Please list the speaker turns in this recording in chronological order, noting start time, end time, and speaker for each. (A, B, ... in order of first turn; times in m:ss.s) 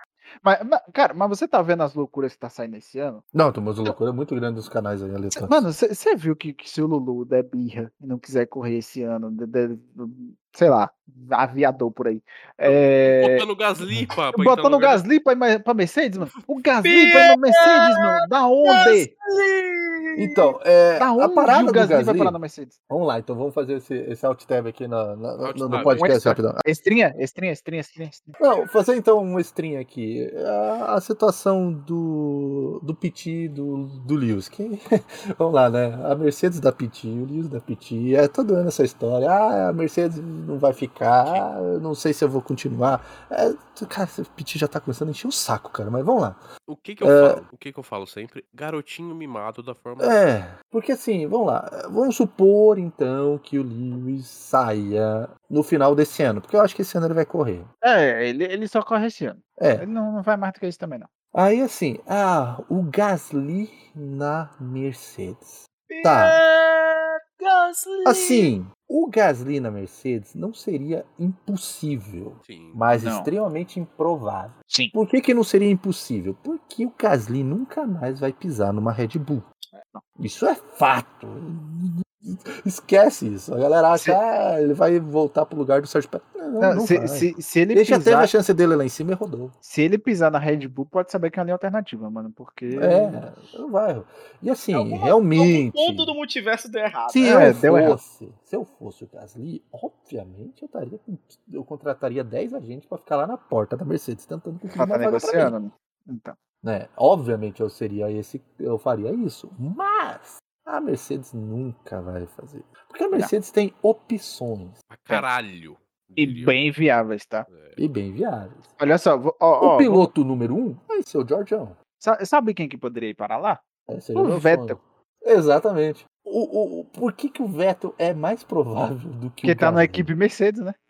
0:00.4-0:03.2 A
0:03.3-0:05.7 B
0:05.4-0:13.4 A
0:12.6-0:15.0 C
0:14.3-0:19.1 A
0:16.8-0:20.5 D
0:20.2-0:22.4 B
0:21.0-0:22.8 A
0:22.9-0:26.6 B
0:25.4-0:26.1 C
0:25.7-0:28.4 A
0:28.4-0:34.8 B
0:35.4-0:46.4 B
0:46.7-0:50.2 C
0:47.0-0:47.4 B
0:50.0-0:57.7 B
0:57.8-1:01.1 A
0:59.6-0:59.9 B
1:01.3-1:06.4 B
1:05.9-1:08.5 D
1:08.0-1:19.5 B
1:12.4-1:12.8 C
1:12.9-1:13.3 A
1:14.7-1:14.9 A
1:20.2-1:29.6 B
1:26.6-1:28.3 A
1:29.6-1:33.2 A
1:32.8-1:36.1 B
1:34.7-1:37.4 D
1:37.1-1:45.5 B
1:37.2-1:38.0 A
1:44.7-1:46.4 A
1:46.6-1:54.8 B
1:54.9-1:56.6 C
1:56.2-1:57.5 A
1:57.5-1:57.8 C
1:57.8-1:58.8 B
1:58.8-2:00.1 A
1:59.6-2:01.8 B
2:02.0-2:03.6 A
2:03.9-2:10.1 B
2:04.1-2:04.8 A
2:09.4-2:10.8 A